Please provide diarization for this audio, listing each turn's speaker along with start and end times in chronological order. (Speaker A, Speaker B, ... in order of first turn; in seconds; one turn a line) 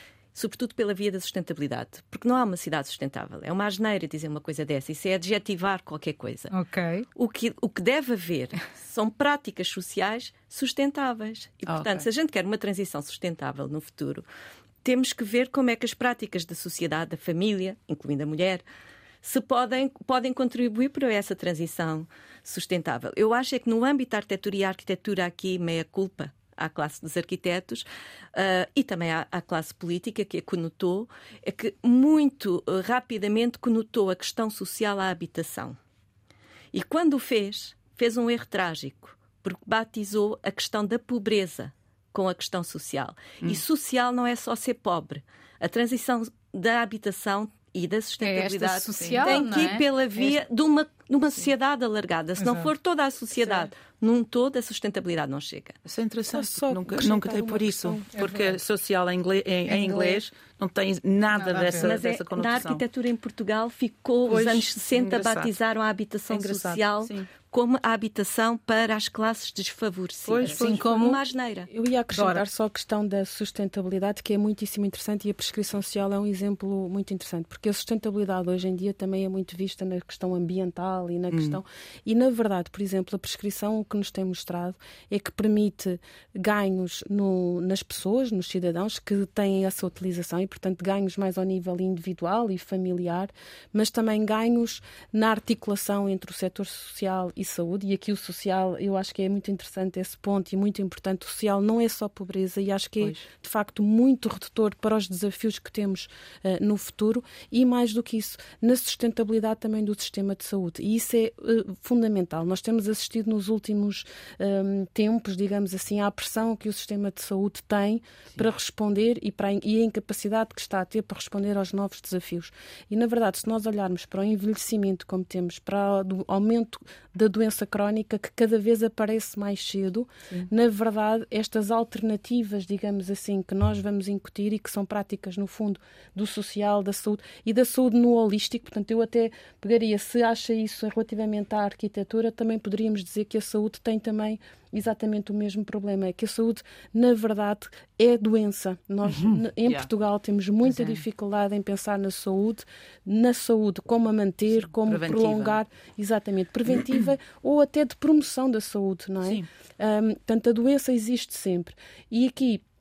Speaker A: 0.3-6.5
Speaker B: 6.5-7.0
Speaker A: 7.1-14.2
Speaker A: 14.8-18.6
Speaker A: 19.2-35.8
Speaker A: 36.7-55.8
Speaker B: 48.2-49.8
Speaker B: 52.4-52.7
Speaker C: 55.9-62.8
Speaker D: 56.3-58.3
Speaker B: 58.1-58.5
Speaker D: 59.7-60.2
Speaker B: 61.4-61.9
Speaker A: 61.7-71.7
Speaker C: 64.3-65.5
Speaker C: 66.3-67.3
Speaker C: 70.2-70.7
Speaker B: 70.4-71.2
Speaker D: 71.7-162.6
Speaker B: 72.1-72.4
Speaker C: 81.3-81.6
Speaker B: 149.1-149.4
Speaker C: 154.5-155.6